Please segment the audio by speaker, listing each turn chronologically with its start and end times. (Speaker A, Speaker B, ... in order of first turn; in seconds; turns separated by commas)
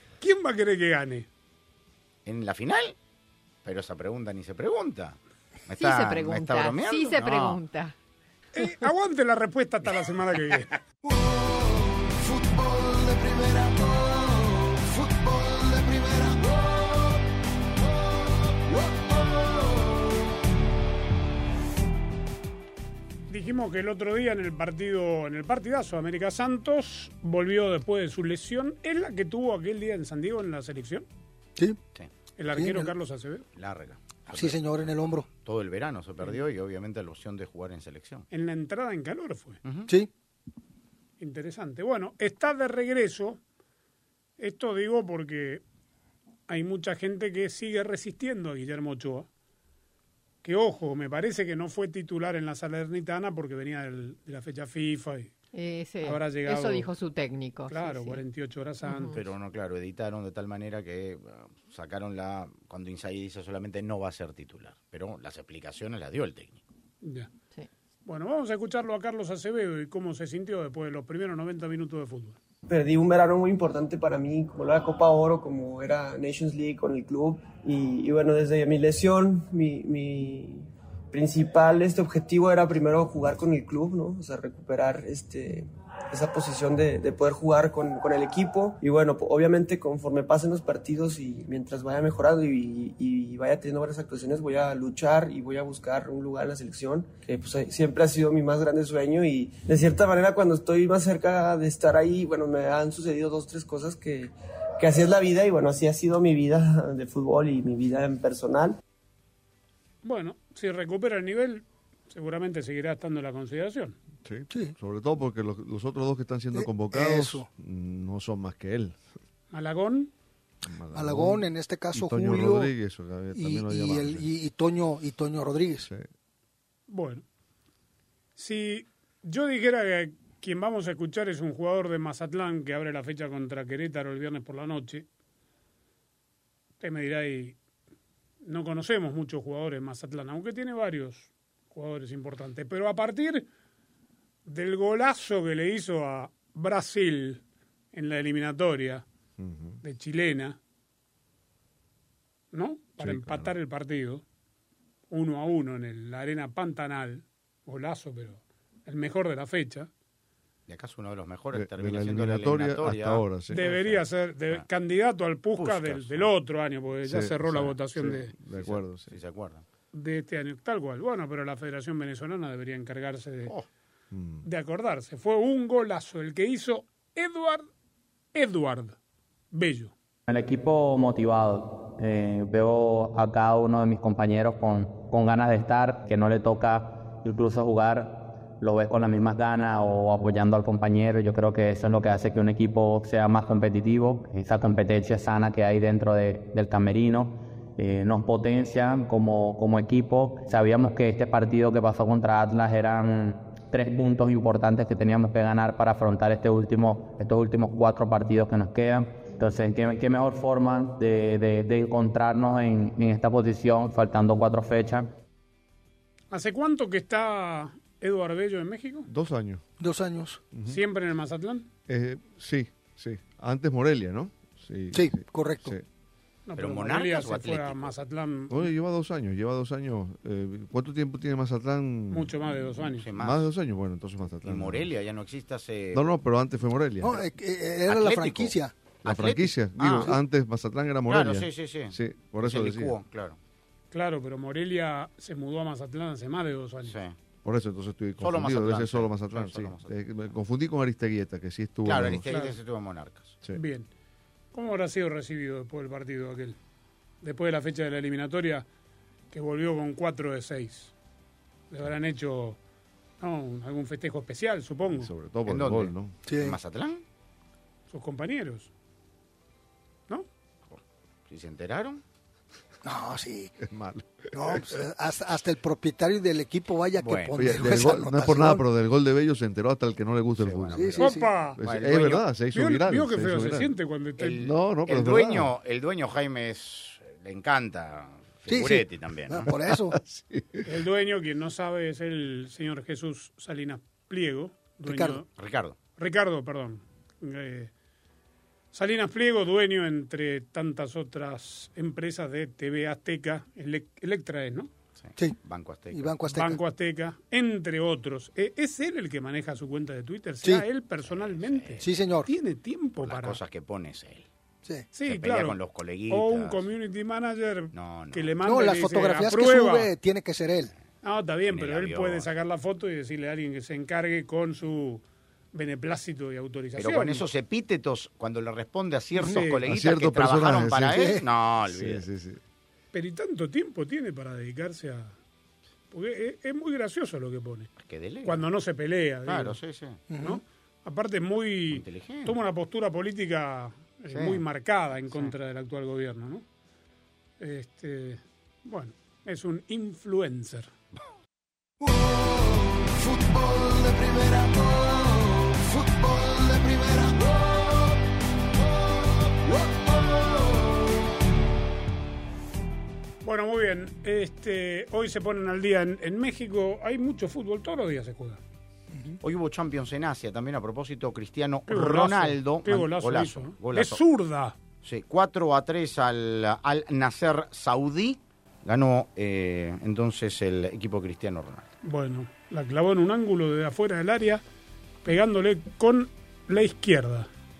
Speaker A: 0.2-1.3, Speaker B: 2.3-3.0, Speaker B: 3.6-7.6, Speaker C: 5.8-8.0, Speaker A: 8.6-10.8, Speaker D: 11.0-17.2, Speaker D: 17.8-20.1, Speaker A: 23.3-31.1, Speaker A: 32.4-33.5, Speaker E: 32.5-32.9, Speaker B: 33.6-34.9, Speaker E: 34.3-35.3, Speaker B: 35.4-38.3, Speaker A: 38.3-39.6, Speaker B: 39.6-39.9, Speaker A: 41.2-43.4, Speaker A: 44.4-45.6, Speaker A: 46.5-49.3, Speaker A: 50.4-55.3, Speaker C: 55.5-58.2, Speaker A: 56.0-56.9, Speaker A: 57.7-59.2, Speaker C: 58.8-59.2, Speaker B: 59.1-66.6, Speaker A: 67.0-67.3, Speaker A: 68.0-72.4, Speaker F: 72.7-108.8, Speaker A: 110.0-114.0, Speaker G: 114.2-119.0, Speaker E: 116.5-117.5, Speaker A: 119.5-120.1, Speaker G: 120.7-124.3, Speaker E: 120.9-122.7, Speaker E: 123.3-125.9, Speaker A: 126.9-127.2, Speaker A: 128.4-135.1, Speaker A: 136.8-137.6, Speaker A: 138.4-143.5, Speaker A: 144.5-149.1, Speaker G: 149.4-149.8, Speaker A: 149.8-150.6, Speaker A: 152.5-154.2, Speaker G: 153.0-153.5, Speaker A: 155.1-159.9, Speaker B: 160.7-164.6, Speaker G: 161.5-163.7, Speaker A: 163.5-168.3, Speaker B: 165.6-166.3, Speaker G: 167.0-169.2, Speaker B: 168.5-169.6, Speaker A: 169.9-173.5, Speaker G: 174.1-174.5, Speaker A: 174.4-177.7, Speaker A: 178.3-179.0, Speaker A: 179.5-179.9, Speaker H: 180.3-215.1, Speaker A: 216.3-219.1, Speaker G: 219.1-219.6, Speaker E: 219.8-220.4, Speaker G: 220.5-220.8, Speaker A: 220.7-221.7, Speaker G: 221.9-225.9, Speaker E: 224.9-225.8, Speaker A: 226.5-228.7, Speaker B: 226.6-227.9, Speaker G: 228.5-232.4, Speaker A: 232.1-233.1, Speaker B: 233.0-233.5, Speaker G: 233.1-234.9, Speaker B: 234.4-236.1, Speaker G: 235.9-237.2, Speaker E: 237.0-238.7, Speaker B: 237.9-238.5, Speaker B: 239.1-240.2, Speaker G: 239.1-243.0, Speaker B: 241.1-243.4, Speaker A: 243.9-247.0, Speaker B: 246.8-247.2, Speaker G: 247.4-252.3, Speaker B: 248.2-250.2, Speaker B: 251.8-253.4, Speaker A: 252.3-252.6, Speaker A: 253.5-253.9, Speaker A: 254.5-256.6, Speaker A: 257.2-258.7, Speaker A: 259.3-260.9, Speaker A: 261.7-262.6, Speaker A: 263.2-265.1, Speaker G: 264.9-266.2, Speaker B: 265.4-267.0, Speaker E: 266.3-266.6, Speaker A: 267.9-268.7, Speaker B: 270.7-272.0, Speaker E: 272.8-273.6, Speaker G: 273.6-274.5, Speaker E: 274.3-278.7, Speaker B: 277.0-277.6, Speaker G: 277.4-283.7, Speaker B: 280.4-282.3, Speaker E: 280.7-281.3, Speaker A: 281.0-281.6, Speaker A: 282.5-284.4, Speaker B: 284.2-289.5, Speaker G: 284.4-285.5, Speaker E: 288.5-289.9, Speaker G: 289.5-290.7, Speaker A: 290.6-295.3, Speaker E: 294.9-295.2, Speaker B: 295.4-295.8, Speaker A: 296.0-297.7, Speaker A: 298.7-304.7, Speaker B: 305.0-306.2, Speaker E: 305.9-306.6, Speaker A: 306.3-313.4, Speaker B: 311.0-311.9, Speaker E: 311.8-312.3, Speaker B: 313.0-314.3, Speaker A: 314.9-319.9, Speaker B: 315.1-316.6, Speaker B: 317.7-318.3, Speaker E: 318.4-320.7, Speaker A: 321.0-327.2, Speaker B: 321.5-322.3, Speaker B: 326.8-332.1, Speaker A: 329.2-329.6, Speaker G: 329.7-331.2, Speaker E: 330.9-331.2, Speaker G: 331.7-332.4, Speaker A: 332.9-335.1, Speaker A: 335.9-337.7, Speaker B: 337.8-338.5, Speaker A: 338.2-339.6, Speaker B: 339.3-340.0, Speaker E: 340.1-340.4, Speaker A: 340.2-346.4, Speaker B: 341.7-342.4, Speaker B: 344.1-344.4, Speaker A: 347.4-350.7, Speaker D: 351.8-358.0, Speaker D: 359.2-360.8, Speaker A: 363.2-368.4, Speaker B: 369.2-374.0, Speaker A: 371.7-374.6, Speaker B: 374.8-381.7, Speaker A: 381.8-384.4, Speaker A: 385.1-387.3